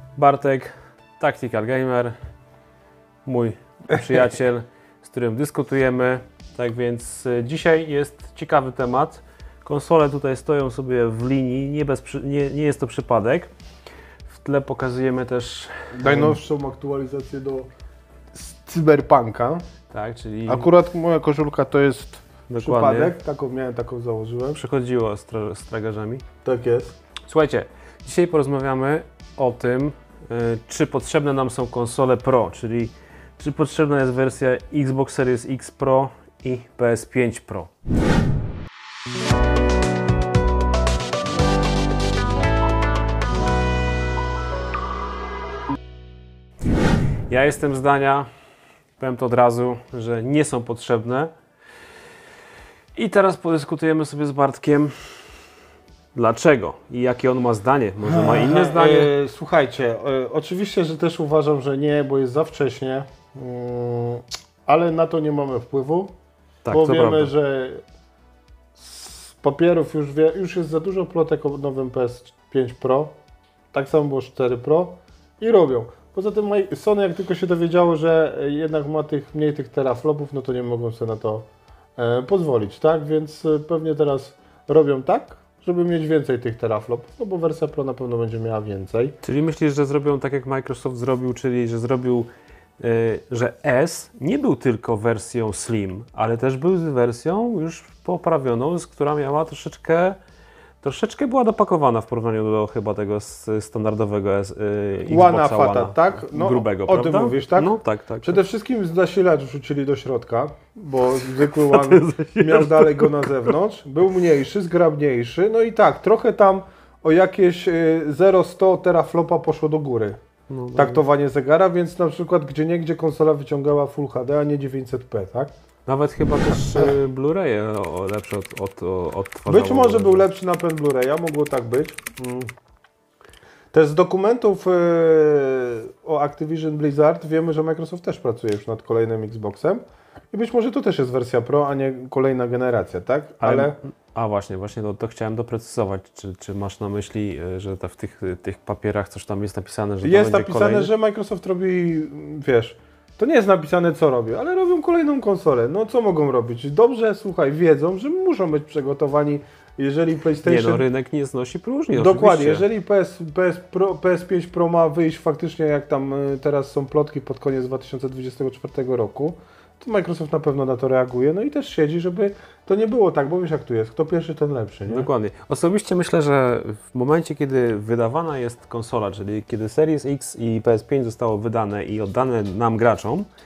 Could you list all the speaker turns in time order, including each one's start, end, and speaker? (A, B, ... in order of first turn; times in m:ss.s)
0:00.2-0:02.2 A
0:03.2-0:13.5 A
0:14.3-0:16.4 A
0:16.0-0:17.7 B
0:18.3-0:19.6 B
0:19.9-0:20.7 A
0:20.5-0:24.6 B
0:22.5-0:23.1 A
0:24.5-0:26.2 A
0:26.4-0:27.0 B
0:27.2-0:37.7 A
0:47.3-0:48.3 A
0:49.0-0:51.3 A
0:53.0-0:55.3 A
0:56.2-0:59.1 A
0:58.0-1:06.1 B
1:06.6-1:07.3 A
1:06.7-1:07.8 B
1:08.8-1:13.2 B
1:13.7-1:29.2 B
1:29.2-1:32.3 A
1:32.8-1:40.2 A
1:40.8-1:48.4 A
1:45.1-2:00.2 B
1:51.4-1:53.3 A
2:00.5-2:01.0 A
2:00.7-2:05.5 B
2:05.9-2:10.3 A
2:09.5-2:12.5 B
2:13.7-2:23.8 B
2:23.4-2:30.9 A
2:30.0-2:40.8 B
2:40.4-2:42.7 A
2:41.9-2:55.1 B
2:54.9-3:03.3 A